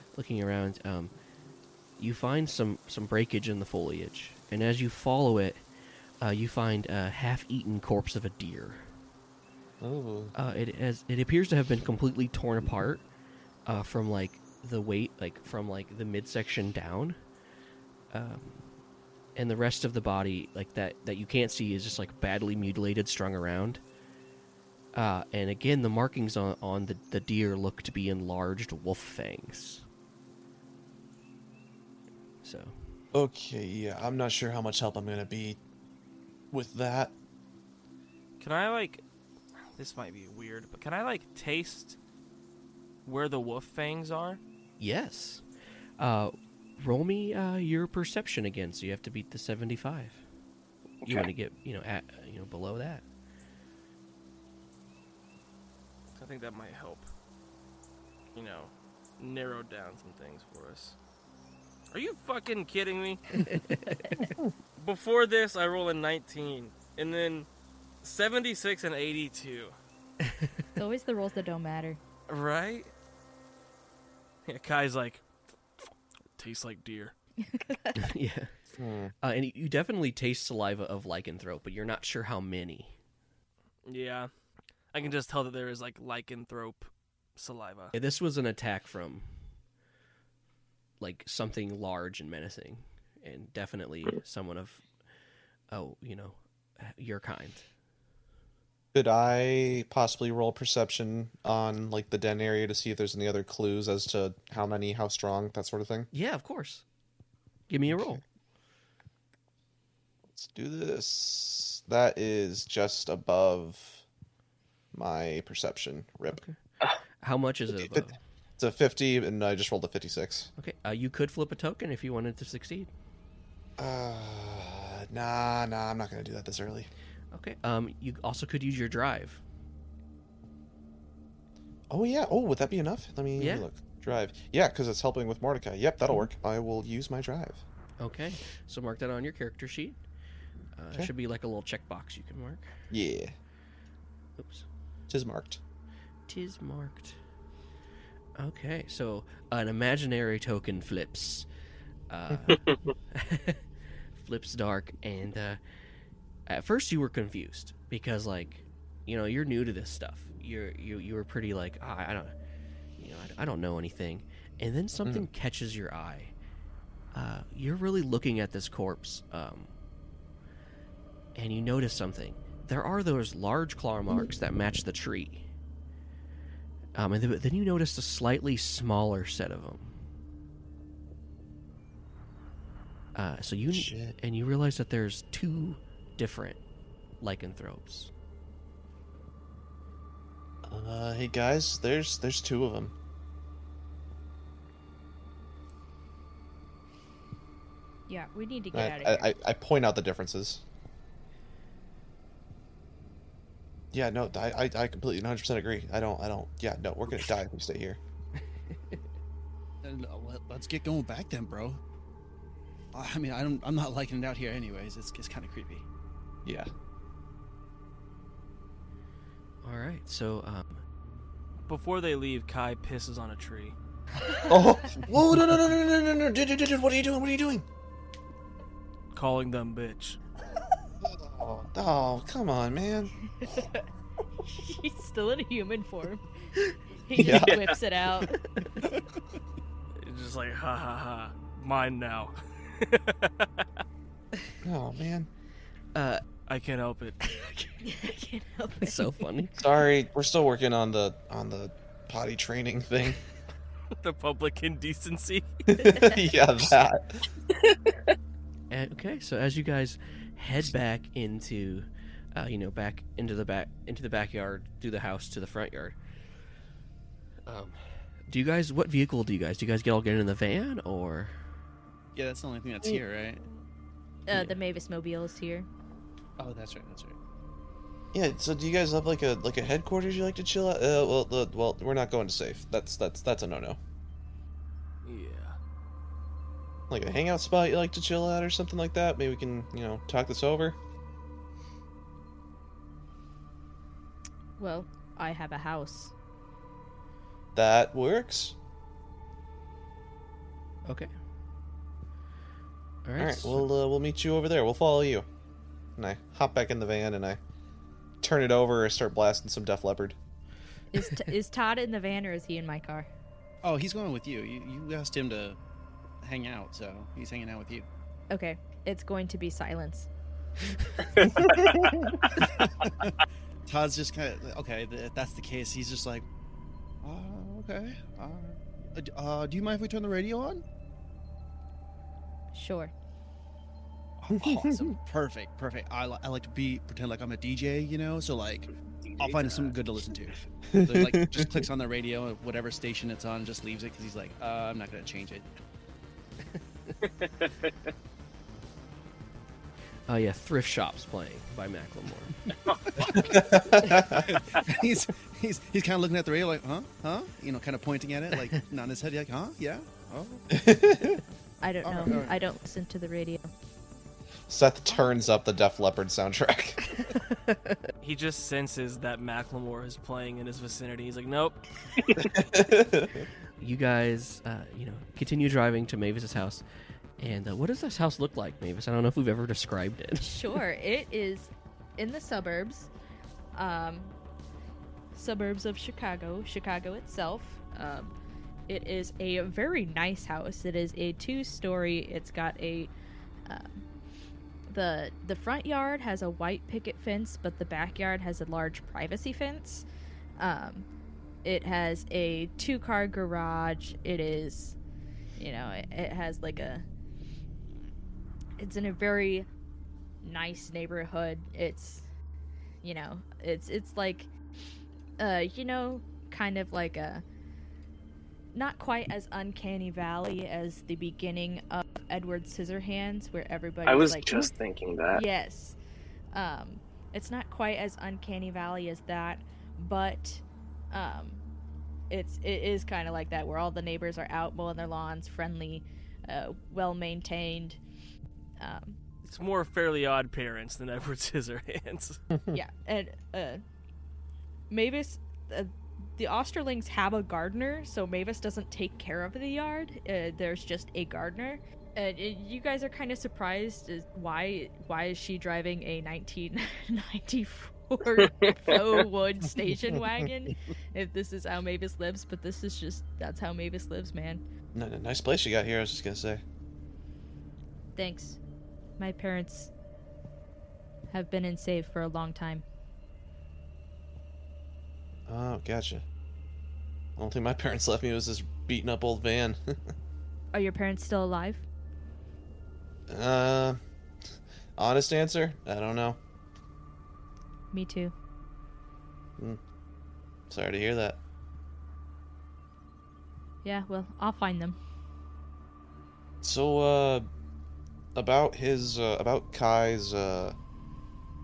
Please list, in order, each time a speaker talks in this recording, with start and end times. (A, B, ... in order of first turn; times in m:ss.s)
0:00.1-0:01.1 A
0:02.0-0:05.6 A
0:06.2-0:08.8 A
0:09.8-0:10.3 B
0:10.4-0:13.0 A
0:13.6-0:17.2 A
0:18.1-0:18.7 A
0:19.4-0:23.8 A
0:24.9-0:29.8 A
0:32.4-0:32.7 A
0:33.1-0:35.6 B
0:36.5-0:37.1 B
0:38.4-0:39.0 C
0:39.8-0:42.0 C
0:43.0-0:44.4 C
0:44.8-0:45.4 A
0:46.0-0:50.2 A
0:51.0-0:51.3 D
0:51.0-0:53.0 A
0:56.2-0:57.1 C
0:58.3-1:01.0 C
1:01.9-1:03.4 C
1:03.4-1:04.3 A
1:04.8-1:07.5 C
1:08.0-1:09.7 C
1:10.2-1:10.5 A
1:10.8-1:12.0 E
1:12.3-1:12.9 C
1:14.4-1:15.2 C
1:16.4-1:17.1 C
1:17.4-1:18.0 E
1:18.0-1:18.5 A
1:18.8-1:19.1 B
1:19.2-1:22.9 A
1:23.8-1:24.3 C
1:24.9-1:27.9 C
1:27.9-1:29.3 A
1:31.0-1:34.8 A
1:35.7-1:37.6 A
1:38.9-1:46.1 B
1:46.1-1:46.8 A
1:47.7-1:48.2 A
1:47.9-1:48.2 B
1:50.3-1:54.0 B
1:54.9-1:56.4 B
1:57.2-1:58.2 A
1:57.7-1:58.0 B
1:58.6-2:00.5 B
2:00.6-2:02.9 A
2:03.8-2:06.9 B
2:07.3-2:09.4 A
2:11.9-2:17.6 B
2:13.4-2:13.7 A
2:18.0-2:20.0 A
2:20.8-2:22.7 A
2:22.9-2:23.3 B
2:24.4-2:24.6 A
2:25.1-2:25.6 B
2:26.3-2:27.2 A
2:28.4-2:31.5 A
2:32.1-2:32.6 A
2:32.5-2:32.8 D
2:33.1-2:35.6 A
2:36.5-2:42.3 A
2:43.0-2:46.3 A
2:45.0-2:45.2 B
2:47.1-2:49.7 A
2:51.4-2:55.4 A
2:57.0-3:00.0 A
3:03.1-3:06.6 A
3:03.7-3:04.2 B
3:07.2-3:08.1 A
3:10.6-3:12.9 B
3:18.1-3:19.3 E
3:18.7-3:20.6 B
3:23.9-3:28.0 B
3:28.7-3:29.0 A
3:29.8-3:31.8 F
3:32.9-3:35.8 F
3:36.4-3:36.7 B
3:39.6-3:40.8 A
3:41.7-3:43.8 C
3:44.5-3:47.6 B
3:49.1-3:50.2 C
3:51.0-3:53.1 B
3:53.4-3:53.8 E
3:54.5-3:56.2 E
3:57.0-3:58.4 E
3:57.2-3:57.6 B
3:57.2-3:57.8 D
4:00.0-4:03.7 C
4:04.6-4:05.3 B
4:05.9-4:06.2 A
4:06.5-4:07.2 C
4:07.8-4:09.2 E
4:08.8-4:09.6 A
4:09.6-4:13.2 B
4:14.0-4:15.5 C
4:15.7-4:17.2 B
4:15.8-4:16.2 E
4:18.7-4:26.0 A
4:27.4-4:27.8 A
4:28.3-4:31.3 A
4:32.1-4:33.4 F
4:34.3-4:35.7 E
4:36.4-4:37.2 F
4:38.1-4:43.8 B
4:45.0-4:45.6 C
4:46.9-4:50.8 B
4:54.6-4:56.1 E
4:57.5-4:58.6 B
5:03.0-5:03.6 A
5:03.2-5:05.2 B
5:06.0-5:07.4 B
5:08.2-5:10.2 B
5:10.9-5:13.1 E
5:13.6-5:15.6 F
5:16.2-5:17.9 F
5:18.3-5:20.1 E
5:21.2-5:22.0 D
5:22.4-5:23.1 F
5:23.7-5:26.2 F
5:27.0-5:30.6 F
5:32.5-5:32.9 E
5:34.2-5:45.4 F
5:34.3-5:34.9 B
5:39.0-5:39.8 D
5:40.7-5:41.7 B
5:47.0-5:47.9 D
5:50.1-5:52.4 A
5:52.6-5:53.3 D
5:53.0-5:53.4 F
5:53.1-5:54.3 B
5:53.9-6:00.4 F
6:00.5-6:01.2 B
6:01.6-6:03.5 E
6:01.8-6:02.4 F
6:04.5-6:06.8 B
6:07.1-6:07.9 A
6:08.0-6:11.6 C
6:12.2-6:13.2 B
6:13.6-6:16.6 A
6:17.2-6:20.5 A
6:20.2-6:22.9 E
6:23.5-6:24.1 E
6:25.1-6:28.1 E
6:28.7-6:32.9 E
6:33.5-6:33.8 E
6:34.7-6:39.8 E
6:40.4-6:40.9 E
6:41.4-6:44.8 E
6:45.4-6:46.8 E
6:48.6-6:49.5 E
6:50.2-6:52.0 E
6:52.8-6:54.3 E
6:55.2-6:57.2 E
6:58.5-7:04.5 E
7:03.8-7:05.2 D
7:05.1-7:05.8 E
7:06.3-7:11.4 E
7:12.1-7:17.8 E
7:18.6-7:19.0 E
7:19.2-7:22.2 C
7:22.5-7:23.6 E
7:24.7-7:44.4 E
7:38.2-7:39.0 D
7:44.7-7:46.4 B
7:48.0-7:48.4 E
7:49.0-7:49.7 E
7:51.1-7:52.6 E
7:55.3-7:56.0 B
7:57.2-7:59.7 B
8:00.5-8:01.6 E
8:03.1-8:03.8 B
8:04.8-8:06.2 B
8:07.7-8:08.1 E
8:10.5-8:11.2 B
8:13.6-8:14.8 E
8:16.4-8:17.3 B
8:18.1-8:20.5 B